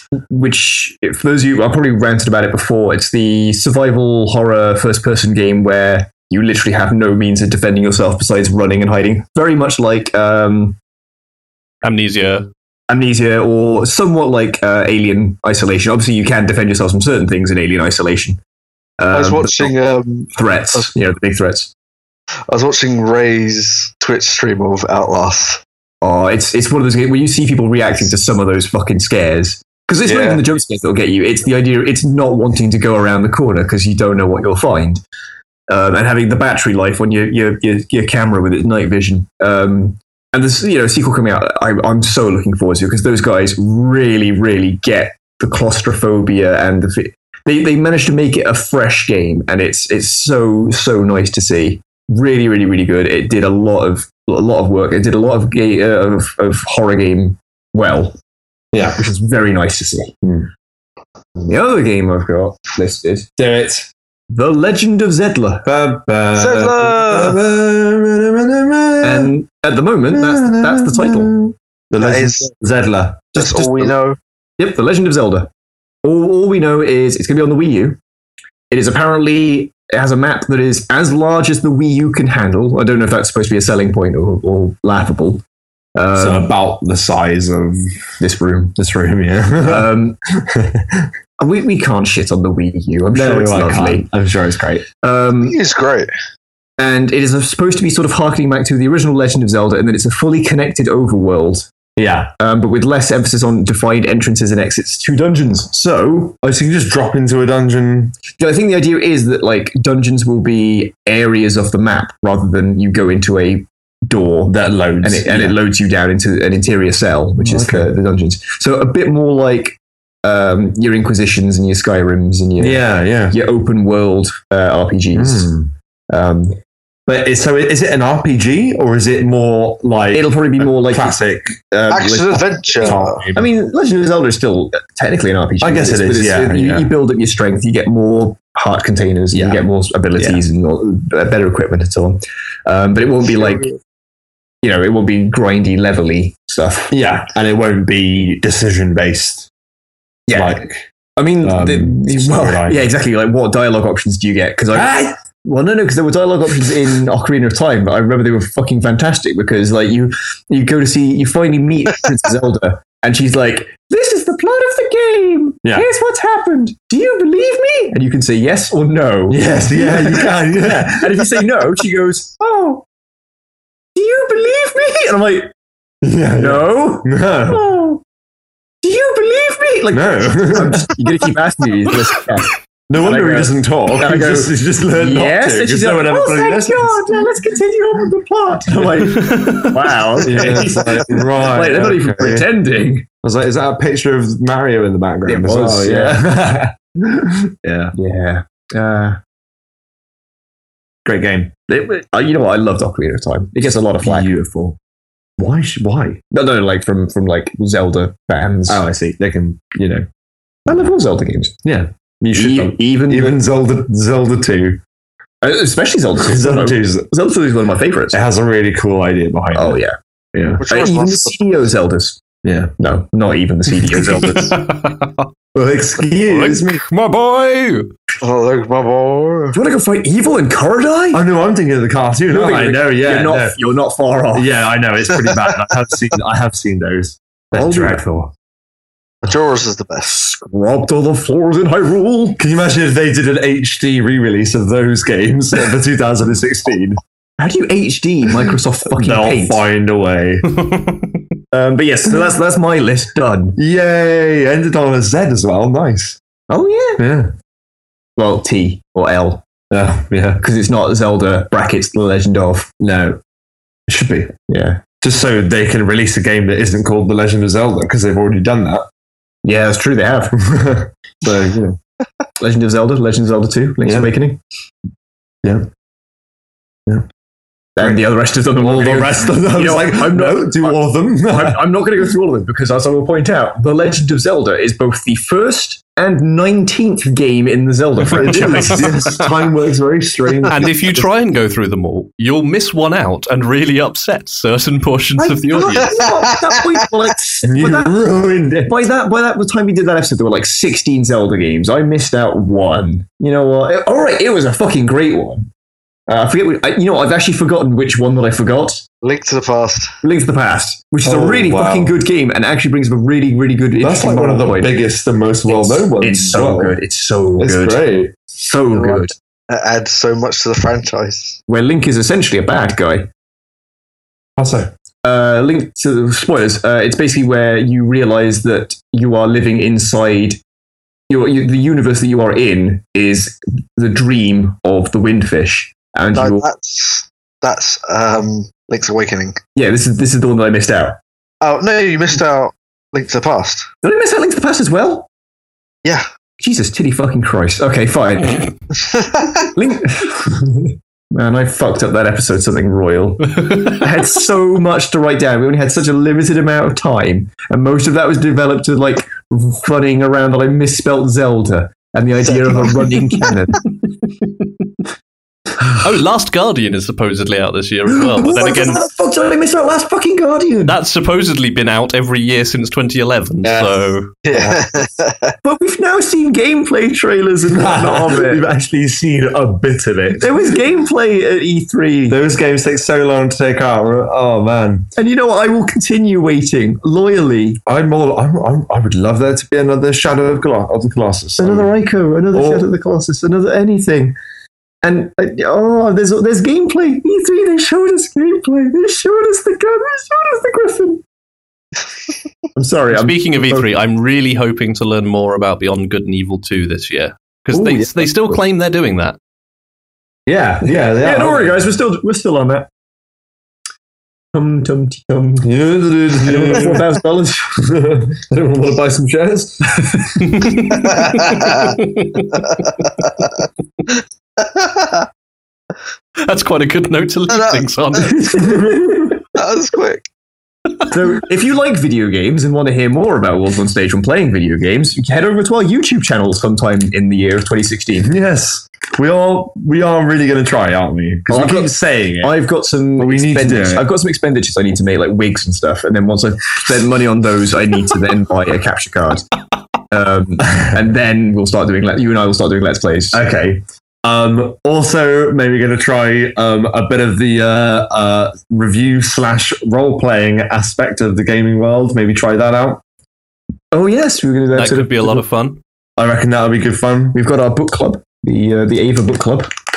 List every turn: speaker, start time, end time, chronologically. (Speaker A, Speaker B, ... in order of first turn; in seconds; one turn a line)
Speaker A: 0.3-10.8
Speaker B: 11.8-12.5
Speaker A: 12.9-18.4
Speaker A: 19.0-19.7
Speaker C: 19.1-20.9
Speaker A: 20.3-21.7
Speaker C: 22.5-25.6
Speaker A: 26.0-35.0
Speaker D: 30.1-30.4
Speaker A: 35.7-58.1
Speaker D: 58.7-59.0
Speaker A: 58.9-60.1
Speaker D: 60.2-60.5
Speaker A: 61.5-63.3
Speaker D: 63.4-63.9
Speaker A: 64.3-65.7
Speaker D: 65.7-69.3
Speaker C: 66.3-67.4
Speaker A: 69.0-71.5
Speaker D: 70.1-73.9
Speaker C: 72.0-72.5
Speaker C: 73.3-74.2
Speaker A: 74.6-75.5
Speaker A: 76.0-78.0
Speaker A: 78.7-85.4
Speaker A: 86.0-86.5
Speaker D: 86.2-87.9
Speaker A: 88.2-88.8
Speaker D: 88.8-91.1
Speaker A: 89.6-90.2
Speaker A: 91.4-94.1
Speaker D: 93.1-94.8
Speaker A: 95.0-95.5
Speaker C: 95.4-96.1
Speaker A: 96.8-101.7
Speaker D: 102.0-102.3
Speaker A: 102.4-106.4
Speaker D: 106.4-108.2
Speaker A: 108.4-125.5
Speaker D: 114.5-115.6
Speaker D: 117.4-117.9
Speaker D: 122.6-123.4
Speaker D: 125.2-125.7
Speaker A: 126.1-126.6
Speaker D: 127.1-131.6
Speaker A: 130.1-143.7
Speaker C: 131.9-133.2
Speaker D: 132.8-133.5
Speaker D: 135.6-136.9
Speaker D: 139.3-139.6
Speaker D: 140.2-140.4
Speaker A: 144.6-146.9
Speaker D: 146.9-149.5
Speaker A: 150.3-150.6
Speaker D: 150.3-150.8
Speaker A: 151.2-172.8
Speaker D: 151.4-152.9
Speaker D: 154.7-155.2
Speaker D: 169.3-171.4
Speaker A: 173.9-175.5
Speaker D: 176.0-177.6
Speaker A: 176.3-178.0
Speaker A: 178.8-193.1
Speaker D: 179.9-180.9
Speaker D: 182.9-187.3
Speaker D: 188.7-189.6
Speaker B: 189.3-189.6
Speaker D: 190.2-192.5
Speaker D: 193.2-197.9
Speaker A: 195.3-196.3
Speaker A: 197.9-199.2
Speaker D: 201.1-201.5
Speaker A: 201.7-204.3
Speaker D: 204.0-204.8
Speaker D: 205.4-206.2
Speaker A: 206.3-208.8
Speaker D: 208.7-210.1
Speaker A: 210.7-211.6
Speaker D: 211.6-214.8
Speaker A: 212.3-213.4
Speaker A: 215.4-218.2
Speaker D: 216.2-217.1
Speaker D: 218.1-219.8
Speaker A: 219.6-219.9
Speaker D: 220.3-220.6
Speaker C: 220.6-221.5
Speaker A: 220.7-222.2
Speaker D: 222.4-222.7
Speaker A: 222.8-224.6
Speaker B: 224.0-225.3
Speaker D: 225.6-226.8
Speaker B: 226.3-227.9
Speaker C: 228.2-229.6
Speaker A: 229.5-231.3
Speaker D: 231.1-233.6
Speaker A: 232.3-234.5
Speaker D: 234.3-238.3
Speaker A: 237.5-238.1
Speaker C: 239.2-240.2
Speaker A: 240.1-242.4
Speaker D: 242.4-247.0
Speaker A: 247.4-249.6
Speaker D: 248.9-250.5
Speaker A: 251.5-253.6
Speaker D: 253.6-256.2
Speaker A: 256.5-257.1
Speaker D: 257.0-257.3
Speaker A: 258.2-259.4
Speaker D: 259.7-260.4
Speaker A: 260.4-262.7
Speaker D: 262.8-263.2
Speaker D: 263.9-264.3
Speaker A: 264.5-264.8
Speaker D: 265.0-268.9
Speaker A: 269.4-270.4
Speaker D: 270.3-271.8
Speaker A: 272.4-274.4
Speaker D: 273.9-274.1
Speaker A: 277.8-288.9
Speaker D: 278.6-281.6
Speaker D: 288.1-291.0
Speaker B: 288.2-289.2
Speaker B: 290.5-296.0
Speaker A: 295.2-305.5
Speaker C: 295.8-296.8
Speaker D: 297.4-298.7
Speaker A: 306.1-308.8
Speaker C: 309.0-309.9
Speaker A: 310.0-314.8
Speaker D: 311.0-312.0
Speaker D: 313.8-316.8
Speaker A: 315.5-319.1
Speaker D: 317.4-318.1
Speaker C: 318.7-321.4
Speaker A: 321.5-323.1
Speaker D: 324.4-324.7
Speaker A: 325.0-330.4
Speaker A: 331.1-336.4
Speaker C: 336.1-339.4
Speaker A: 339.6-341.0
Speaker C: 341.4-343.7
Speaker A: 343.8-345.1
Speaker A: 346.4-348.5
Speaker C: 348.9-349.3
Speaker A: 349.5-363.6
Speaker C: 362.2-363.3
Speaker B: 365.8-368.8
Speaker A: 367.9-370.8
Speaker B: 370.7-374.1
Speaker D: 373.4-374.8
Speaker C: 374.3-375.3
Speaker A: 375.4-378.5
Speaker D: 377.5-380.4
Speaker A: 380.2-382.2
Speaker D: 382.1-384.9
Speaker A: 385.0-387.6
Speaker D: 387.7-391.7
Speaker A: 391.4-394.2
Speaker D: 392.3-392.7
Speaker A: 394.8-401.0
Speaker A: 402.6-403.7
Speaker B: 402.9-409.2
Speaker A: 407.5-408.4
Speaker D: 410.3-411.7
Speaker A: 410.6-412.7
Speaker A: 414.3-415.5
Speaker D: 415.4-417.0
Speaker A: 416.2-417.5
Speaker D: 417.6-420.3
Speaker B: 420.3-422.5
Speaker C: 420.9-421.8
Speaker C: 422.3-422.9
Speaker C: 424.4-425.1
Speaker B: 426.2-428.6
Speaker C: 427.3-428.8
Speaker D: 428.3-429.1
Speaker C: 429.4-430.1
Speaker A: 430.9-438.1
Speaker D: 438.0-442.4
Speaker A: 441.3-449.3
Speaker D: 443.0-443.9
Speaker A: 449.9-453.2
Speaker D: 453.1-462.8
Speaker A: 463.7-465.2
Speaker B: 464.5-465.6
Speaker D: 466.0-467.2
Speaker A: 467.1-469.5